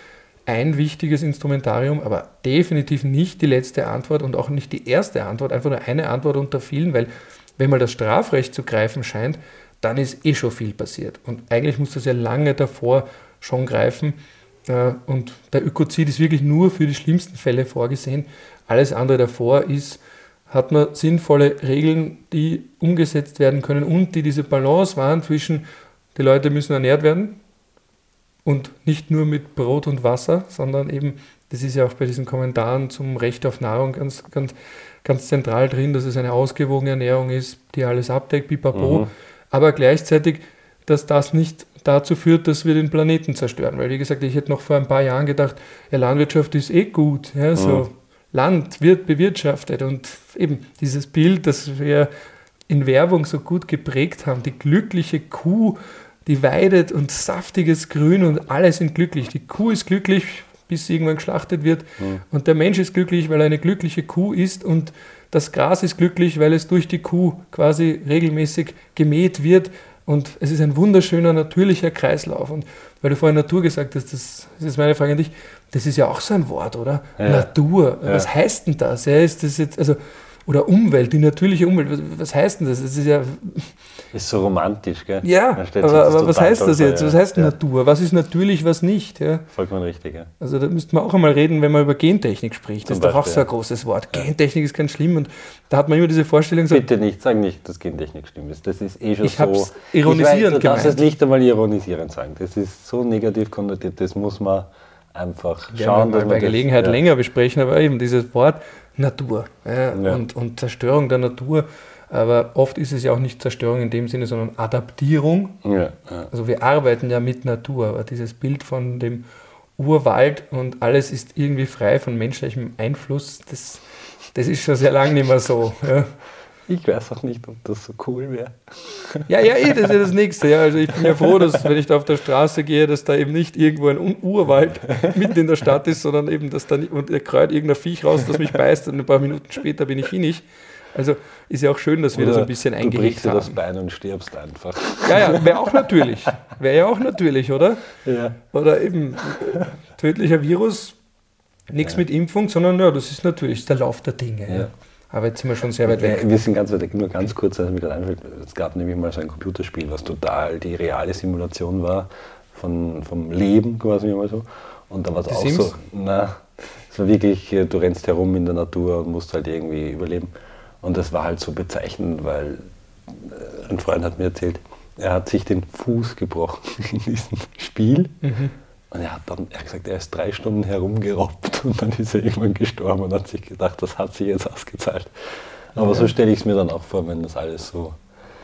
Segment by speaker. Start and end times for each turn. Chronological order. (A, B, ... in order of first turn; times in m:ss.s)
0:00.5-0:20.0 A
0:20.5-0:25.6 A
0:26.1-0:27.4 A
0:28.4-0:52.1 A
0:38.7-0:39.1 B
0:47.6-0:47.8 B
0:52.7-1:23.7 A
1:17.2-1:17.5 B
1:24.1-1:27.5 B
1:25.2-1:29.5 A
1:29.5-1:30.3 B
1:30.4-1:36.8 A
1:32.8-1:33.4 B
1:36.7-1:47.0 B
1:39.2-1:41.0 A
1:45.7-1:55.6 A
1:49.9-1:50.2 B
1:55.6-1:56.3 B
1:56.3-1:59.2 A
1:59.8-2:06.1 A
2:06.7-2:09.3 B
2:09.3-2:23.6 A
2:11.0-2:11.4 B
2:14.8-2:15.3 B
2:22.1-2:26.1 B
2:25.0-2:27.9 A
2:28.0-2:28.4 B
2:28.5-2:31.0 A
2:31.7-2:36.2 A
2:35.8-2:50.3 B
2:45.3-2:45.7 A
2:50.8-2:58.2 B
2:58.2-2:58.5 A
2:58.9-3:08.0 B
3:05.8-3:06.1 A